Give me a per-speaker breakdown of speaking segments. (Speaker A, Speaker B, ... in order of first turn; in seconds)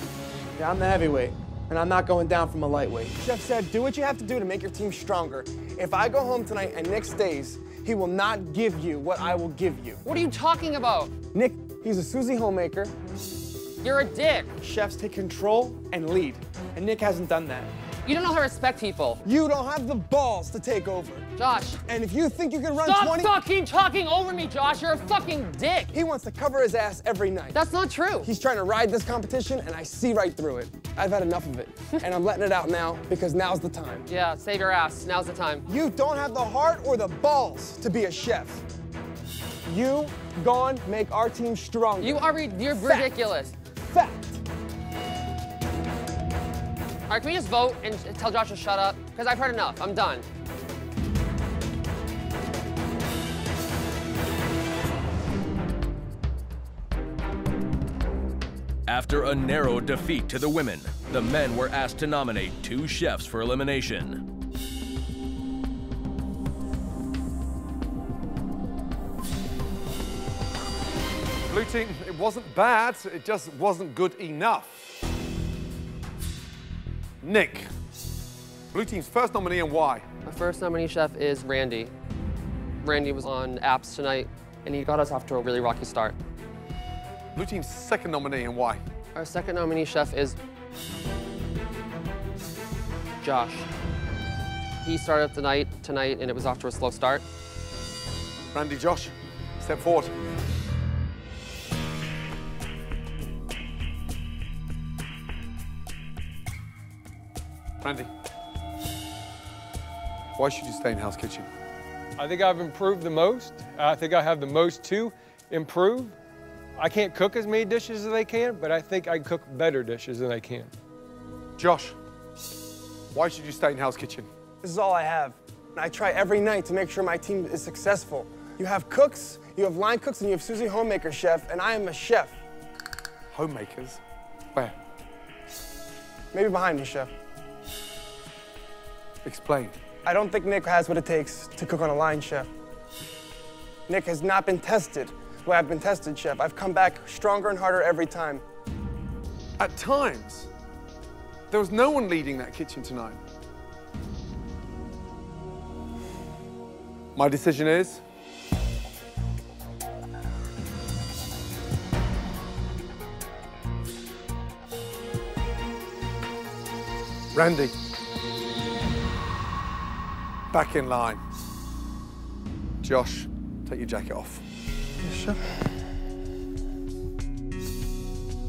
Speaker A: 0.6-10.0, 11.3-12.9, 14.6-17.7, 19.2-21.2, 21.9-23.3, 25.9-27.6, 28.2-34.0, 35.7-38.6, 39.6-43.3, 43.9-44.4, 124.6-132.4, 136.3-137.1, 140.0-142.5, 143.9-148.4, 175.0-175.3
Speaker B: 10.0-11.1, 13.8-14.5, 18.0-19.2, 21.4-21.8, 22.8-25.9, 27.5-28.3, 34.1-35.6, 42.0-43.5, 47.1-50.2, 80.2-81.9, 82.8-86.1, 89.1-90.4, 93.2-93.7, 94.8-97.2
Speaker C: 58.9-64.2
Speaker D: 71.5-74.8, 77.2-77.7, 78.7-80.0, 87.3-88.8, 98.5-100.1, 107.8-108.1, 110.4-111.5, 121.6-122.0, 123.1-124.3, 133.3-134.0, 139.2-139.8, 149.6-150.5, 151.5-153.2, 157.1-158.0, 167.3-167.7, 170.5-171.2, 172.8-174.4
Speaker E: 112.2-116.2, 116.8-120.7